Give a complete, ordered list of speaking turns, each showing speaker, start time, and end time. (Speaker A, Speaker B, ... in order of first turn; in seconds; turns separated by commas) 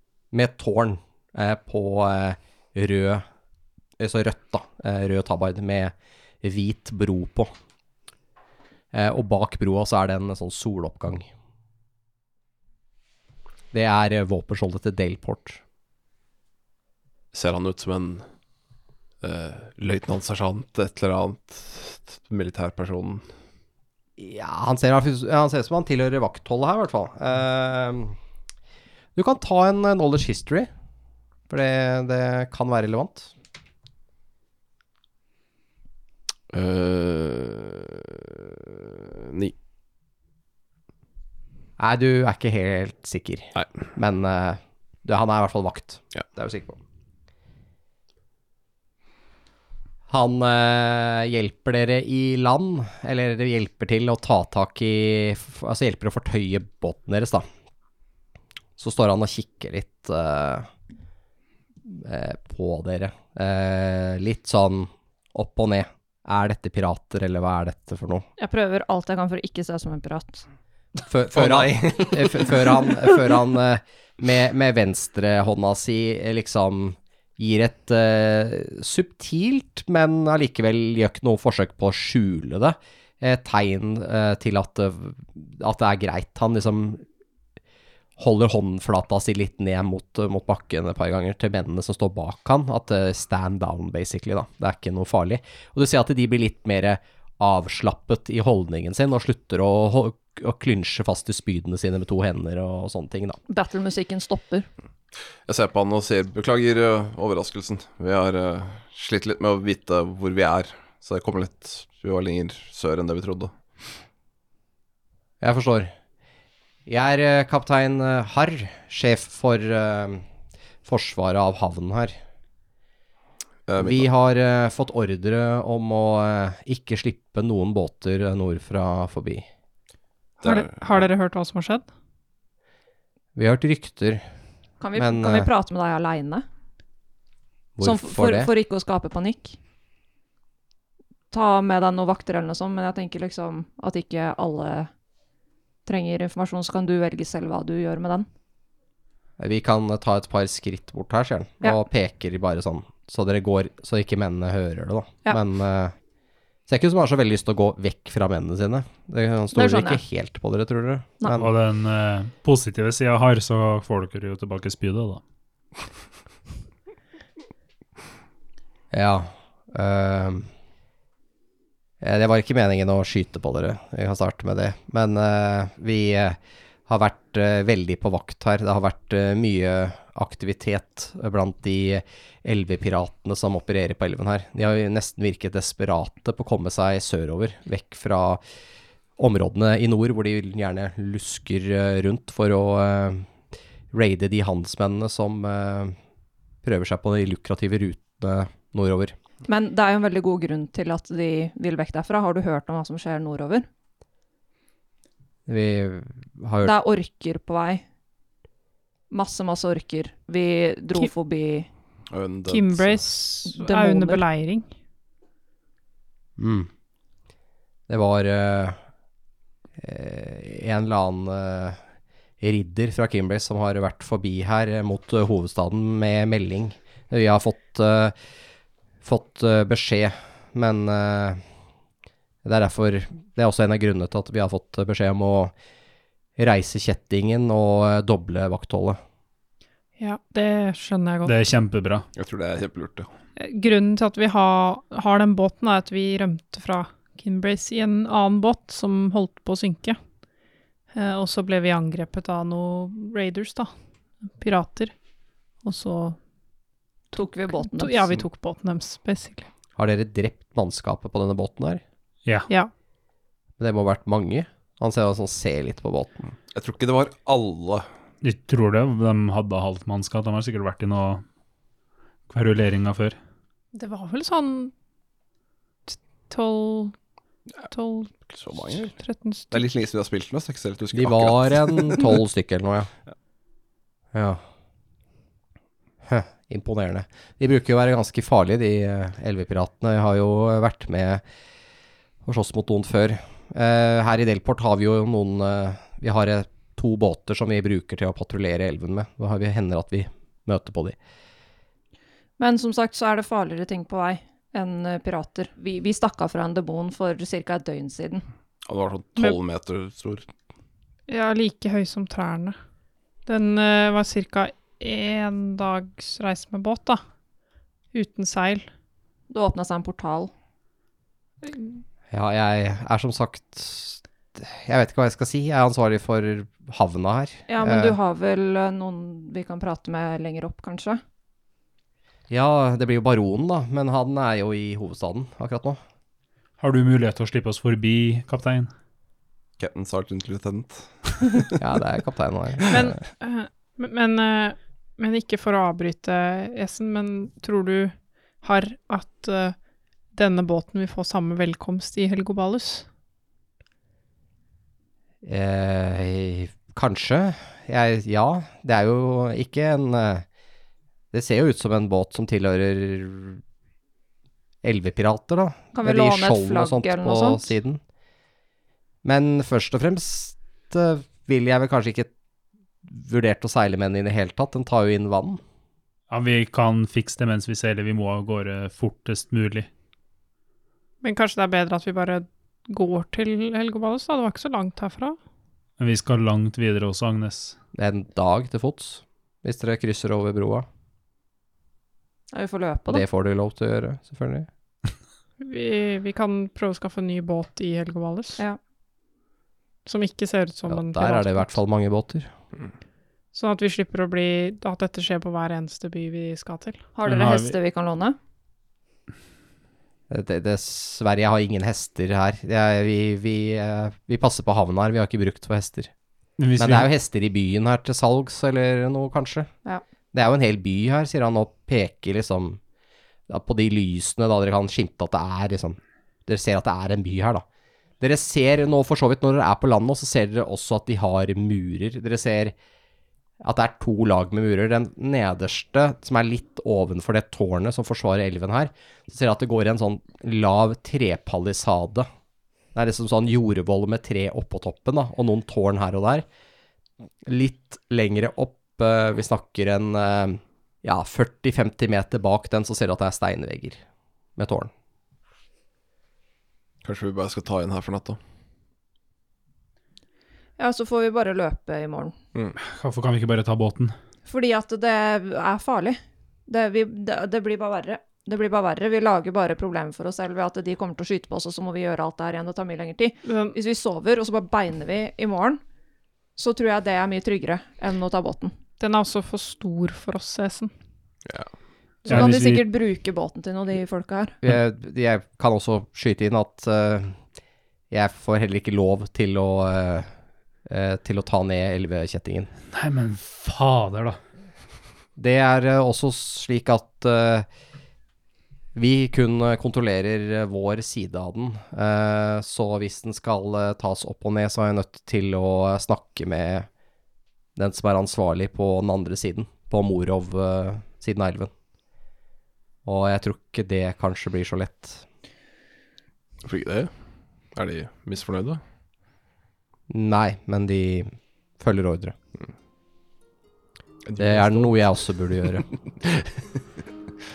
Speaker A: 0.3-3.2, Speaker A: 4.0-7.5, Speaker A: 8.9-11.3, Speaker A: 13.7-15.6, Speaker B: 17.3-18.2, Speaker B: 19.2-23.3, Speaker A: 24.2-28.2, Speaker A: 29.1-30.7, Speaker A: 31.5-33.3, Speaker B: 36.5-39.5, Speaker A: 41.8-46.8, Speaker A: 50.1-57.5, Speaker A: 58.8-60.7, Speaker A: 61.8-68.3, Speaker C: 68.4-70.5, Speaker A: 71.1-87.0, Speaker B: 71.3-72.5, Speaker A: 88.2-103.4, Speaker C: 103.5-104.7, Speaker B: 105.5-113.5, Speaker A: 115.4-115.9, Speaker A: 116.8-120.2, Speaker A: 120.8-122.2, Speaker B: 123.7-124.1, Speaker A: 123.8-129.5, Speaker B: 130.4-131.1, Speaker D: 130.4-131.9, Speaker A: 133.3-134.2, Speaker C: 134.8-136.4, Speaker A: 134.9-135.5, Speaker A: 137.8-138.5, Speaker C: 137.8-139.6, Speaker C: 141.3-144.9, Speaker C: 145.8-148.3, Speaker A: 149.4-155.9, Speaker A: 156.7-161.5, Speaker C: 159.5-160.0, Speaker E: 161.3-165.2, Speaker A: 168.9-170.5, Speaker A: 172.0-188.4, Speaker A: 189.2-193.3, Speaker A: 193.9-195.9, Speaker A: 196.6-199.1, Speaker C: 199.4-203.7, Speaker A: 205.5-206.8, Speaker C: 206.6-207.8, Speaker C: 209.1-211.7, Speaker B: 212.1-213.1, Speaker D: 212.5-214.7, Speaker C: 213.4-214.2, Speaker A: 216.4-216.7, Speaker A: 217.9-218.8, Speaker A: 219.8-221.8, Speaker A: 222.4-228.1, Speaker A: 229.0-231.4, Speaker A: 232.4-235.5, Speaker A: 236.4-239.0, Speaker D: 240.0-241.3, Speaker E: 241.2-242.1, Speaker B: 242.2-243.1, Speaker D: 243.4-250.0, Speaker D: 250.9-253.7, Speaker D: 254.4-254.9, Speaker D: 255.6-256.2, Speaker D: 257.1-259.5, Speaker C: 257.1-258.1, Speaker A: 259.8-261.8, Speaker A: 263.6-266.3, Speaker B: 266.5-267.9, Speaker E: 268.2-271.2, Speaker E: 272.3-273.2, Speaker D: 273.7-274.7, Speaker D: 275.9-276.9, Speaker D: 277.7-278.1, Speaker B: 278.3-278.9, Speaker D: 278.7-279.6, Speaker B: 279.5-282.1, Speaker A: 280.9-282.9, Speaker A: 284.1-284.4, Speaker A: 286.1-291.2, Speaker A: 292.2-300.9, Speaker C: 302.4-308.2, Speaker B: 308.6-310.3, Speaker D: 311.1-312.5, Speaker D: 313.2-317.0, Speaker D: 317.9-318.6, Speaker C: 319.3-320.3, Speaker A: 322.1-328.0, Speaker C: 327.5-331.0, Speaker A: 332.3-335.8, Speaker E: 336.6-338.7, Speaker B: 339.6-341.5, Speaker A: 341.6-342.8, Speaker D: 342.7-349.6, Speaker D: 350.1-352.8, Speaker A: 355.2-360.2, Speaker A: 361.1-363.4, Speaker A: 364.6-367.8, Speaker C: 365.7-367.4, Speaker A: 369.0-372.1, Speaker A: 372.8-375.4, Speaker E: 376.1-379.7, Speaker D: 381.0-385.2, Speaker E: 385.8-387.6, Speaker A: 387.7-390.6, Speaker C: 392.3-393.0, Speaker A: 392.9-394.5, Speaker D: 395.4-398.4, Speaker D: 399.9-401.5, Speaker A: 400.7-402.3, Speaker D: 403.3-406.9, Speaker C: 406.9-408.1, Speaker E: 407.0-407.6, Speaker A: 410.1-415.9, Speaker E: 416.4-416.9, Speaker A: 416.6-419.5, Speaker A: 420.1-422.6, Speaker A: 423.3-427.4, Speaker A: 428.0-432.5, Speaker A: 433.4-442.1, Speaker A: 442.7-446.2, Speaker A: 447.2-453.8, Speaker A: 454.4-454.7, Speaker B: 456.8-458.2, Speaker C: 460.6-462.1, Speaker E: 462.6-463.9, Speaker C: 464.2-475.6, Speaker D: 473.2-473.6, Speaker C: 476.4-478.6, Speaker D: 478.8-480.7, Speaker E: 482.1-482.6, Speaker C: 482.1-484.4, Speaker A: 484.4-487.2, Speaker A: 487.9-490.1, Speaker A: 490.6-492.5, Speaker E: 492.7-494.2, Speaker A: 495.1-497.4, Speaker A: 498.7-506.7, Speaker A: 507.6-511.5, Speaker A: 512.8-515.0, Speaker B: 516.4-516.9, Speaker B: 517.5-518.6, Speaker A: 519.9-522.1, Speaker B: 524.0-524.8, Speaker A: 524.2-525.7, Speaker B: 526.0-526.4